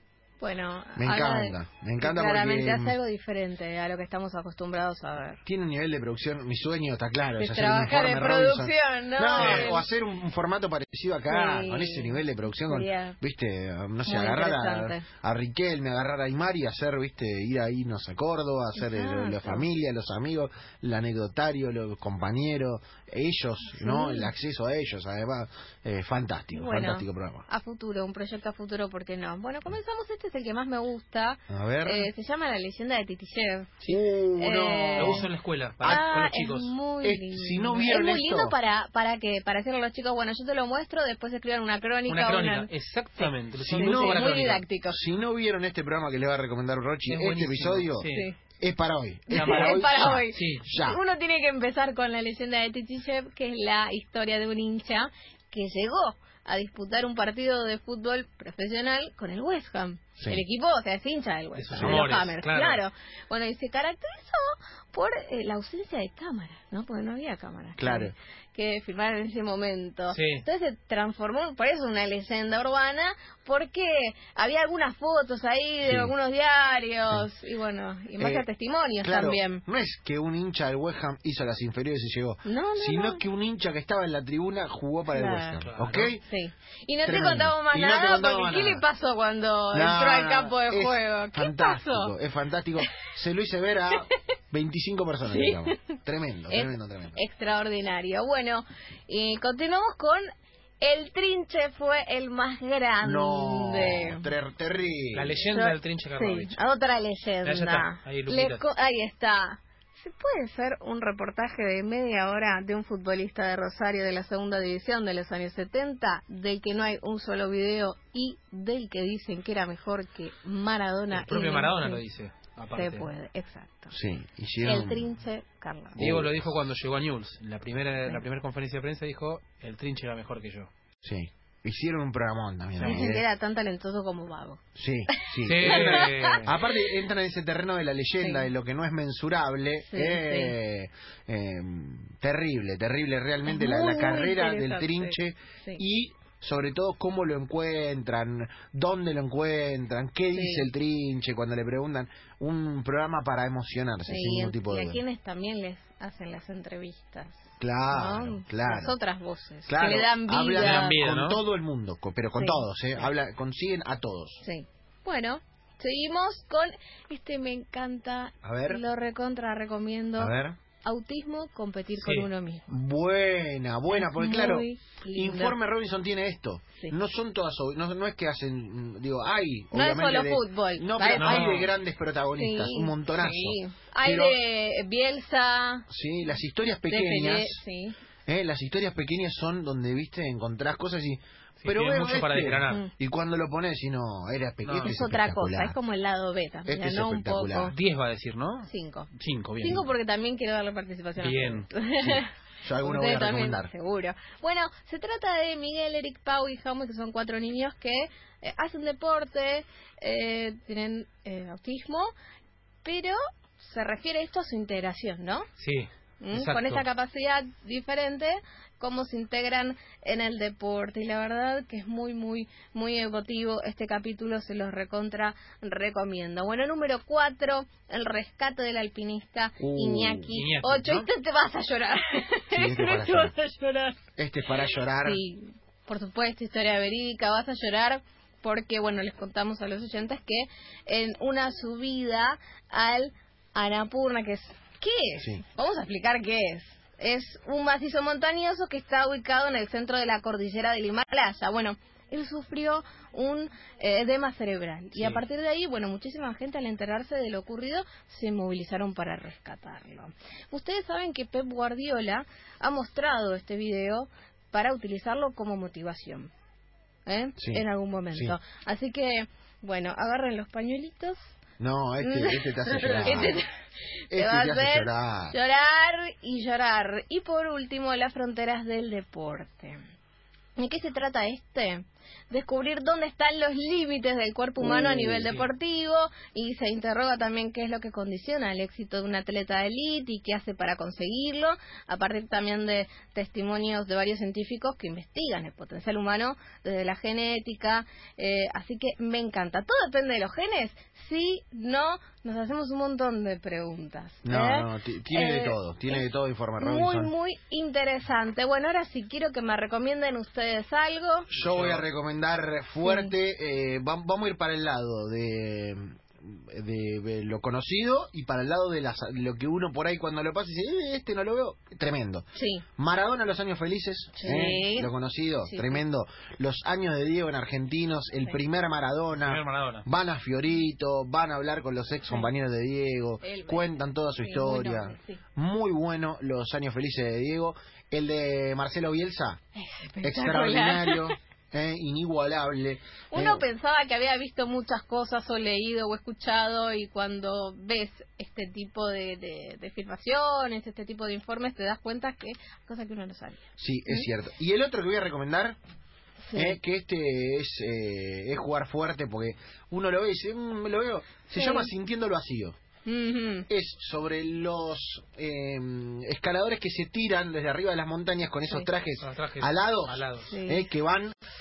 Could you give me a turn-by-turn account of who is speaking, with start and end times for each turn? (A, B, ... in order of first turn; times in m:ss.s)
0:00.4-0:05.4 A
0:01.0-0:03.0 B
0:05.4-0:27.5 B
0:07.4-0:09.8 A
0:09.3-0:09.8 C
0:11.3-0:13.2 A
0:14.0-0:15.0 A
0:18.8-0:19.6 A
0:23.7-0:24.3 A
0:26.5-0:35.3 A
0:31.5-0:32.1 B
0:33.8-0:35.3 B
0:35.0-0:36.7 C
0:35.8-0:36.1 B
0:35.8-0:45.0 A
0:37.0-0:38.6 B
0:42.1-0:44.6 C
0:43.6-0:48.1 B
0:47.1-0:48.3 C
0:48.0-0:48.4 A
0:48.6-0:51.0 B
0:49.3-1:19.6 A
0:49.3-0:50.6 C
1:01.5-1:02.8 C
1:01.7-1:02.0 B
1:07.8-1:08.1 B
1:10.1-1:10.4 C
1:15.8-1:16.1 B
1:18.2-1:18.4 B
1:19.0-1:26.2 B
1:22.4-1:23.2 A
1:25.1-1:25.6 A
1:25.6-1:26.1 C
1:26.2-1:32.1 A
1:27.0-1:28.8 B
1:29.7-1:37.2 B
1:35.2-1:35.8 A
1:36.5-1:40.3 A
1:40.8-1:44.3 A
1:43.0-1:45.4 B
1:45.1-1:46.6 C
1:45.5-2:02.0 A
1:47.4-1:48.6 C
2:01.1-2:03.1 C
2:02.7-2:03.9 A
2:03.9-2:05.1 B
2:04.6-2:06.0 A
2:05.9-2:10.7 C
2:06.0-2:06.5 B
2:11.0-2:13.2 B
2:12.8-2:13.1 C
2:12.8-2:14.6 A
2:14.8-2:35.0 B
2:15.4-2:16.5 C
2:15.6-2:16.4 A
2:18.2-2:18.5 A
2:19.9-2:20.5 A
2:23.4-2:25.8 A
2:30.3-2:30.7 A
2:34.1-2:41.0 A
2:37.6-2:39.0 B
2:39.6-2:44.4 B
2:40.5-2:41.4 C
2:42.4-2:42.6 A
2:44.4-2:52.7 A
2:48.4-2:48.8 B
2:50.2-2:50.6 B
2:52.0-2:52.3 C
2:52.7-3:04.4 B
2:53.9-2:55.6 A
2:59.7-3:01.6 A
3:01.0-3:01.7 C
3:02.4-3:05.9 A
3:05.9-3:07.6 B
3:06.9-3:08.0 A
3:08.3-3:15.8 B
3:11.6-3:12.8 C
3:14.6-3:15.0 C
3:14.8-3:17.7 A
3:16.7-3:17.7 B
3:17.7-3:19.9 C
3:18.6-3:22.3 A
3:21.2-3:21.7 C
3:22.0-3:23.7 B
3:22.8-3:32.1 A
3:32.8-3:35.5 A
3:35.6-3:36.8 C
3:36.2-3:54.0 A
3:49.6-3:50.5 B
3:50.3-3:51.1 C
3:52.5-3:53.3 B
3:54.2-3:55.2 B
3:55.0-4:26.3 A
4:14.9-4:15.2 C
4:27.0-4:31.3 A
4:27.4-4:28.4 B
4:31.6-4:33.4 B
4:32.0-4:33.5 A
4:34.1-4:35.3 B
4:34.1-4:39.8 A
4:40.6-5:06.0 A
4:44.6-4:45.3 B
5:04.2-5:07.1 B
5:06.6-5:11.3 A
5:11.3-5:22.2 B
5:11.3-5:11.9 C
5:12.8-5:13.1 A
5:22.3-5:22.6 A
5:22.8-5:39.4 B
5:24.2-5:24.9 A
5:25.4-5:25.8 A
5:29.2-5:29.8 C
5:33.2-5:35.2 A
5:39.5-5:41.1 A
5:40.0-5:43.4 B
5:43.1-5:54.1 A
5:53.6-5:55.6 B
5:56.2-5:56.6 A
5:56.3-6:02.6 B
6:01.3-6:01.7 A
6:02.8-6:03.5 A
6:03.5-6:11.1 B
6:09.0-6:10.3 C
6:10.2-6:10.7 A